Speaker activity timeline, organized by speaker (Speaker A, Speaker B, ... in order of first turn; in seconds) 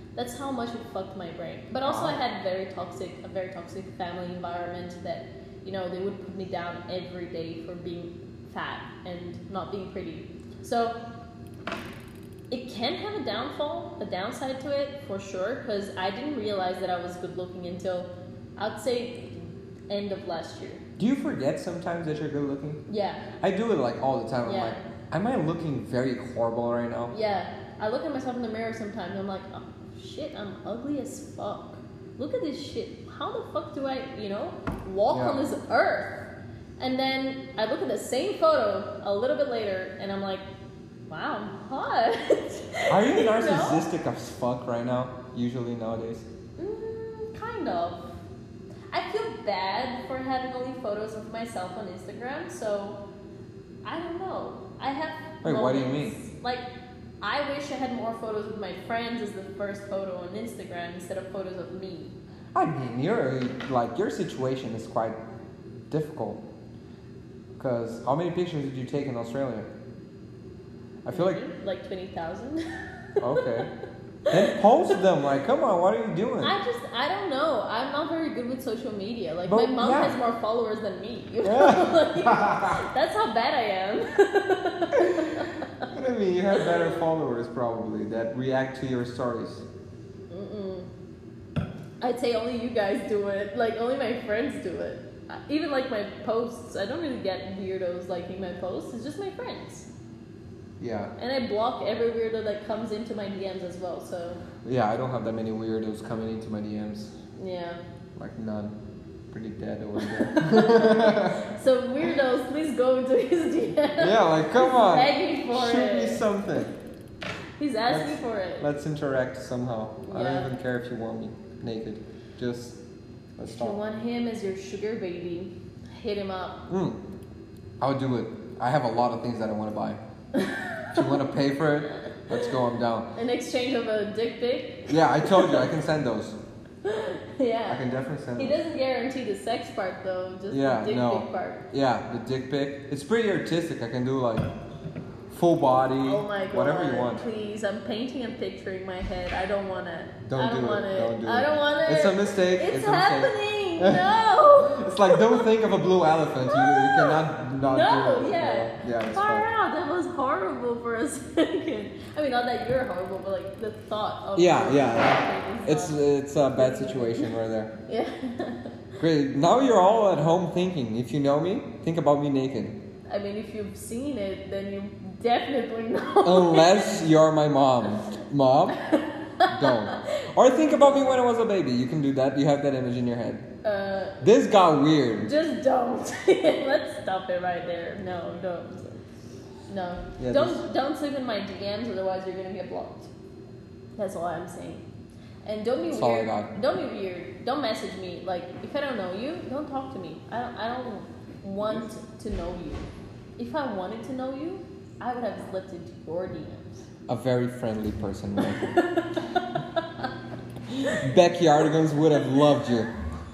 Speaker A: 0.1-10.9, 12.5-20.8, 22.9-23.3, 24.4-24.8, 27.1-40.5, 41.1-43.8, 46.6-48.1, 48.9-53.0, 53.8-56.6, 57.2-62.1, 71.1-72.6, 73.2-73.7, 74.2-74.6, 76.4-85.9, 86.5-86.9, 90.3-90.9, 92.0-99.9, 101.2-104.4, 107.4-107.8, 110.0-116.3, 117.6-118.7, 120.0-120.5, 123.5-126.6, 130.3-131.2, 131.9-132.6, 133.1-135.7, 136.8-137.8, 138.4-141.6, 146.0-155.4, 156.5-167.3, 167.9-168.8, 173.1-177.0, 178.8-181.2, 183.6-184.2, 185.2-189.0, 189.7-193.1, 194.0-194.8, 195.4-202.9, 203.4-206.8, 208.4-210.1
Speaker B: 1.8-2.2, 21.0-22.8, 23.4-27.1, 35.1-35.4, 42.9-46.3, 55.4-56.1, 62.5-65.2, 65.9-66.4, 67.6-69.7, 71.0-71.4, 73.2-73.7, 74.3-76.5, 79.5-80.2, 81.4-82.8, 84.9-89.7, 100.8-101.1, 104.6-107.1, 108.2-108.7, 109.3-111.4, 114.0-116.7, 117.9-122.8, 123.4-123.8, 126.7-127.0, 127.8-130.0, 130.9-133.1, 134.9-136.4, 137.7-138.6, 140.5-144.5, 145.3-147.2, 150.2-159.4, 164.3-167.7, 169.0-172.8, 176.2-178.8, 179.4-183.4, 184.2-185.3, 190.2-190.6, 195.9-196.5, 207.1-208.8, 210.7-212.9